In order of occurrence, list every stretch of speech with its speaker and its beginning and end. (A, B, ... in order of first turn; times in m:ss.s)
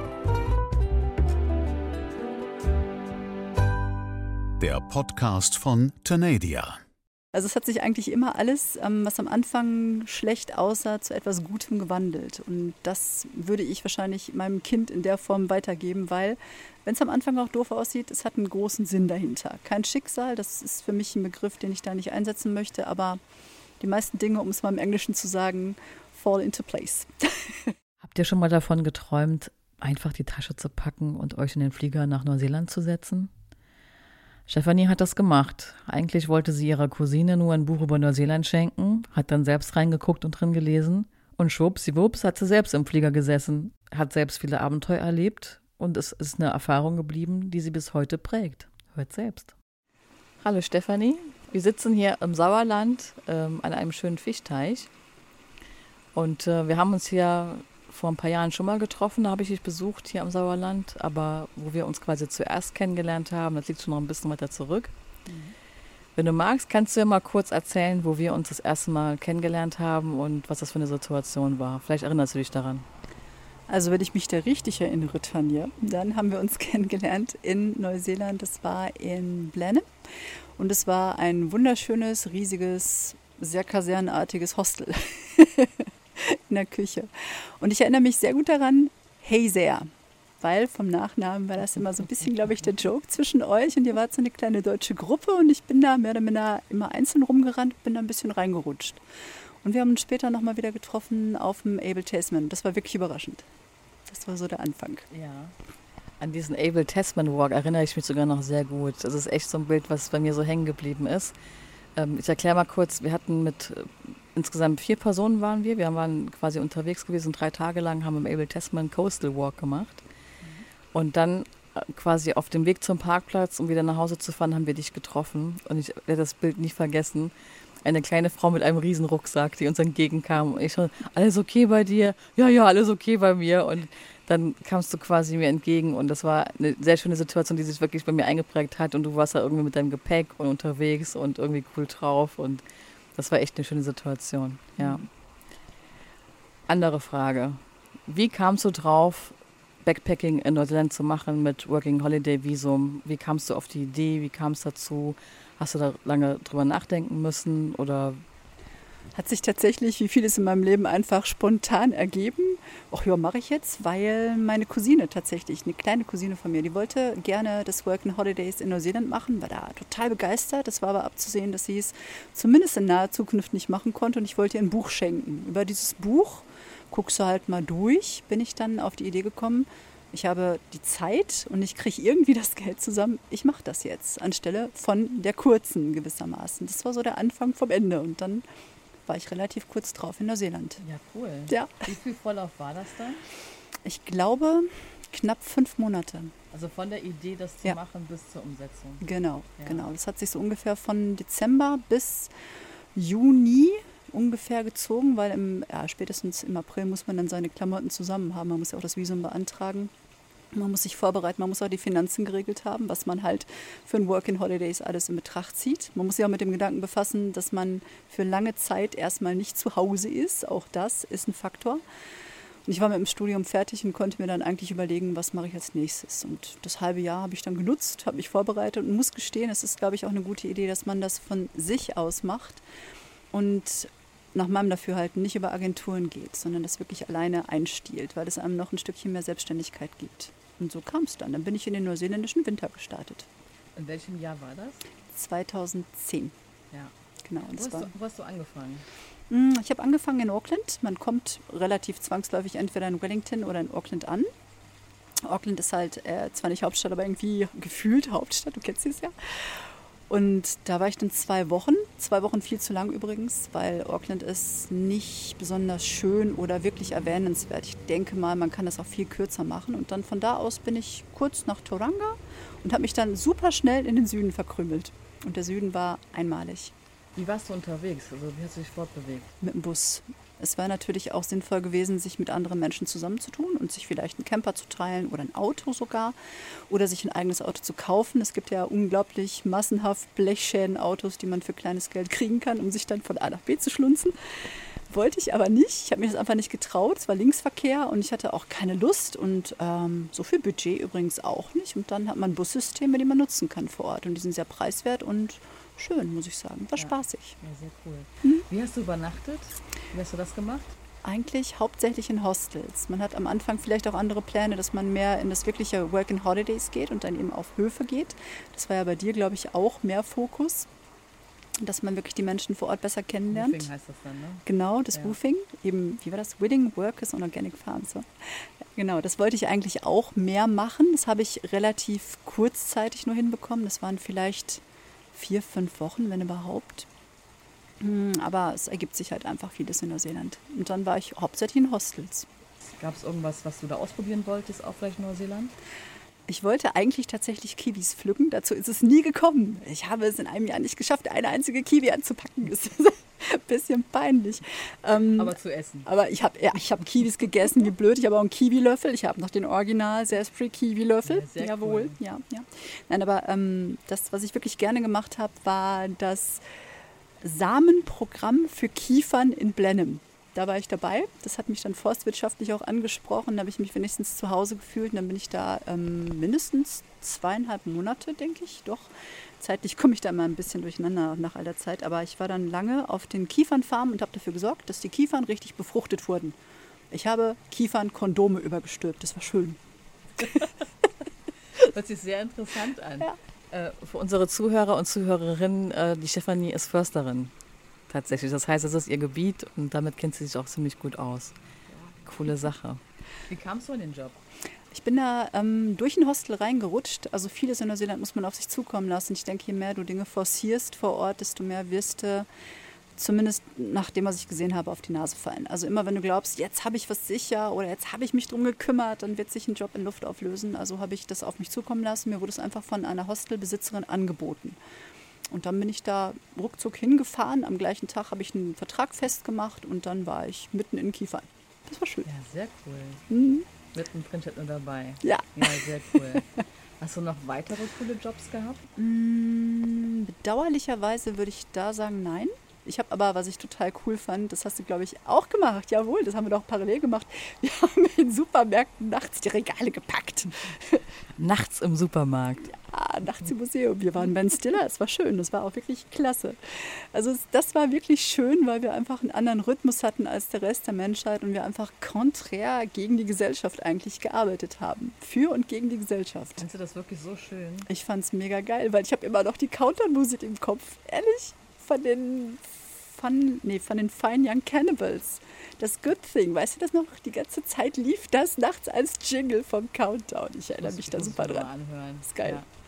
0:04.6-0:06.8 A
0:07.3-0:23.2 B
0:23.8-0:27.7 B
0:28.0-0:33.3 C
0:34.5-0:49.5 C
0:50.4-0:54.9 C
0:56.2-1:04.9 C
1:05.3-1:05.5 B
1:06.2-1:12.9 C
1:13.7-1:19.9 B
1:20.6-1:29.9 B
1:30.4-1:39.0 B
1:39.6-1:43.5 B
1:44.1-1:45.1 B
1:45.1-1:45.5 C
1:46.2-1:51.4 C
1:52.0-2:00.0 C
2:00.9-2:07.3 C
2:07.8-2:22.6 C
2:23.2-2:25.1 C
2:24.8-2:25.1 B
2:26.7-2:38.2 C
2:39.2-3:08.4 B
3:09.1-3:10.8 B
3:10.8-3:13.2 C
3:11.5-3:11.8 B
3:13.8-3:16.3 B
3:16.5-3:19.0 C
3:19.0-3:22.3 B
3:19.6-3:19.9 C
3:23.0-3:29.9 B
3:30.5-3:41.8 B
3:42.7-3:52.6 B
3:53.3-4:03.3 B
4:03.8-4:04.8 C
4:05.1-4:06.4 B
4:07.3-4:07.9 B
4:07.5-4:08.9 C
4:09.3-4:14.3 B
4:15.2-4:36.7 B
4:37.2-4:39.4 C
4:39.4-4:46.2 B
4:46.7-5:07.4 B
5:06.8-5:10.8 C
5:11.0-5:20.7 B
5:21.6-5:23.7 B
5:23.3-5:25.2 C
5:24.5-5:36.9 B
5:37.8-5:42.3 B
5:42.8-5:45.5 C
5:46.3-5:55.4 B
5:55.2-5:55.9 C
5:55.9-6:06.4 B
6:01.0-6:02.0 C
6:07.2-6:26.4 B
6:26.9-6:29.6 B
6:30.2-6:30.5 C
6:31.6-6:37.3 C
6:37.9-6:41.4 C
6:42.0-6:44.2 C
6:44.7-6:52.3 B
6:53.0-7:04.6 B
7:05.3-7:12.1 B
7:12.0-7:13.0 C
7:13.1-7:13.5 B
7:13.7-7:18.7 C
7:15.0-7:15.6 B
7:18.8-7:30.9 B
7:31.2-7:32.5 C
7:32.5-7:46.5 B
7:46.4-7:47.7 C
7:47.7-8:01.5 B
8:00.6-8:02.5 C
8:02.0-8:02.4 B